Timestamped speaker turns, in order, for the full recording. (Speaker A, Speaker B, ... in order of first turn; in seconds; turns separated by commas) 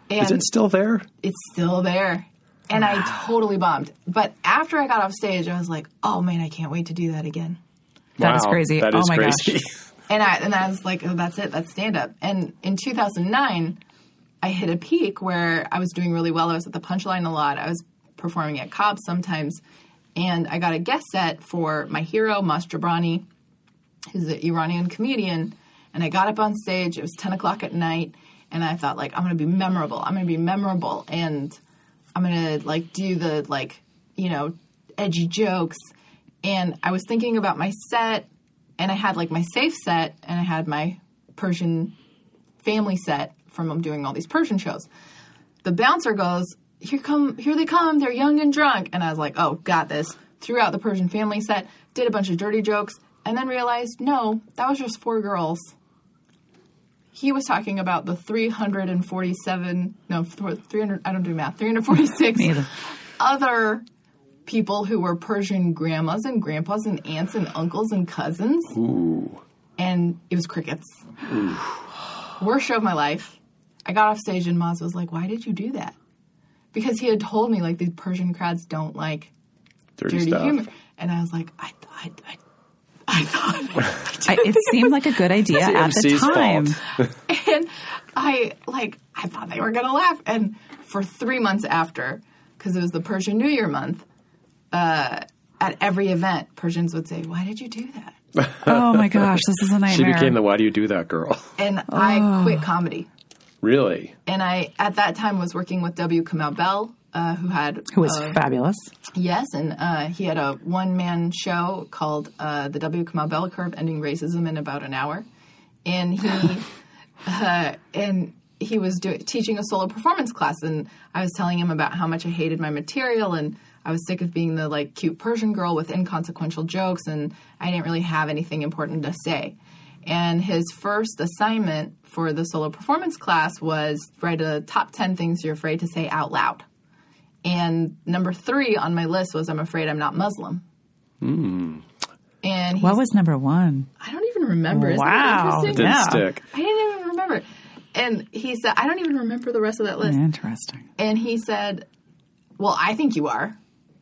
Speaker A: 0.1-0.5, Speaker B: 0.2-1.1, Speaker A: 1.2-7.6, Speaker B: 8.2-9.8, Speaker C: 8.2-9.6, Speaker A: 10.1-13.8, Speaker A: 14.4-19.6, Speaker A: 20.1-23.2, Speaker A: 24.1-31.6, Speaker A: 32.1-35.9, Speaker A: 36.4-42.0, Speaker A: 42.6-44.9, Speaker A: 45.6-55.7, Speaker A: 57.1-63.8, Speaker C: 62.4-62.7, Speaker A: 64.5-68.8, Speaker B: 68.7-69.4, Speaker A: 69.8-71.0, Speaker B: 71.3-71.6, Speaker A: 72.4-76.0, Speaker A: 76.7-79.3, Speaker B: 80.0-80.6, Speaker A: 80.1-82.4, Speaker A: 83.1-85.0, Speaker C: 84.3-86.8, Speaker B: 85.5-86.8, Speaker A: 87.3-94.0, Speaker A: 94.7-98.2, Speaker B: 98.4-101.5, Speaker C: 98.6-100.4, Speaker A: 101.6-103.1, Speaker C: 101.9-102.7, Speaker B: 103.6-104.2, Speaker A: 104.3-108.4, Speaker C: 107.9-108.9, Speaker A: 109.1-115.3, Speaker A: 115.8-116.7, Speaker A: 117.2-136.6, Speaker A: 137.4-140.6, Speaker B: 141.2-141.8, Speaker A: 142.4-143.0, Speaker C: 142.8-143.9, Speaker A: 144.0-150.2, Speaker C: 144.7-146.3, Speaker B: 145.7-146.4, Speaker C: 150.0-150.8, Speaker A: 151.0-151.9, Speaker A: 152.6-153.6